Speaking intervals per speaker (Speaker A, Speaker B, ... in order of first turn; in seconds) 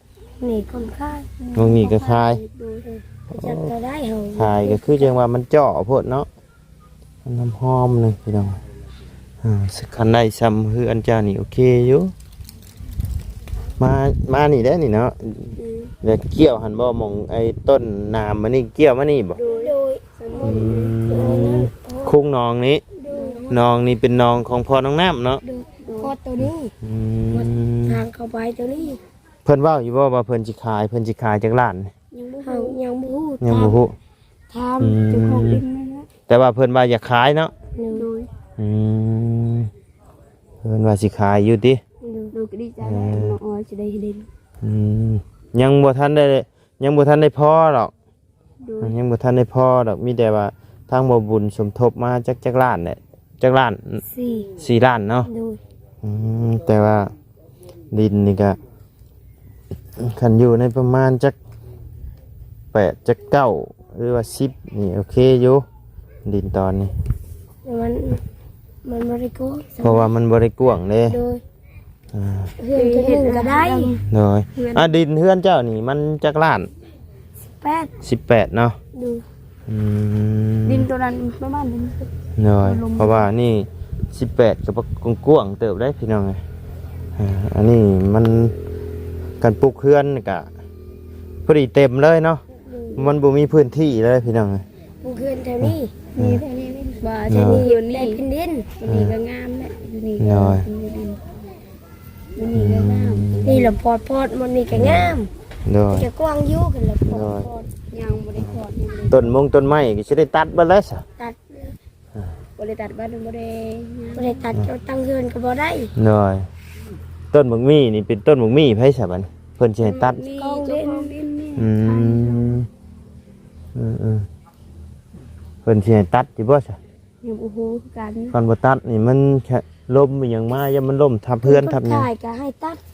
Speaker A: 0.4-1.3, 2.9-5.0, 19.4-22.2, 22.9-23.5, 25.4-26.7, 27.3-29.0, 32.4-33.8, 34.5-35.0, 37.8-38.1, 42.0-42.3, 54.0-54.5, 55.3-55.6, 67.6-68.2, 68.8-70.1, 71.1-71.4, 72.6-73.9, 77.6-77.9, 78.9-79.2, 92.7-93.0, 95.0-96.1, 97.3-98.7, 103.4-105.3, 105.9-107.7, 111.2-111.8, 114.1-115.9, 119.9-121.1, 131.4-132.8
Speaker B: 1.4-2.9, 15.6-15.9, 19.3-21.0, 23.1-23.5, 25.8-26.1, 32.1-32.8, 35.1-36.1, 37.9-38.3, 42.3-44.3, 48.6-48.9, 72.7-74.0, 74.5-74.9, 80.7-82.0, 82.6-83.3, 96.2-98.2, 98.8-101.2, 102.3-103.7, 107.9-109.3, 112.6-114.4, 119.8-122.6, 127.2-128.3
Speaker C: 1.5-2.4, 3.3-3.7, 4.3-6.3, 7.2-8.6, 9.4-12.1, 13.8-19.4, 20.4-22.8, 23.5-25.4, 26.4-28.0, 29.4-31.9, 33.4-33.9, 34.8-35.6, 36.3-37.5, 38.6-39.7, 40.6-41.8, 42.8-43.4, 44.6-47.9, 48.8-54.0, 54.6-55.3, 56.0-57.1, 57.9-58.6, 60.0-61.4, 62.7-65.6, 66.2-66.9, 69.8-71.2, 72.1-72.5, 74.1-76.7, 78.0-78.8, 79.7-80.9, 82.4-86.4, 87.2-88.5, 89.4-90.5, 91.5-92.4, 93.0-94.6, 95.6-96.4, 97.3-97.6, 98.8-99.1, 100.2-100.7, 102.5-103.6, 104.7-106.1, 107.1-107.5, 109.1-111.0, 116.0-116.5, 117.3-120.2, 121.5-122.7, 123.8-124.3, 125.6-126.8, 128.3-132.1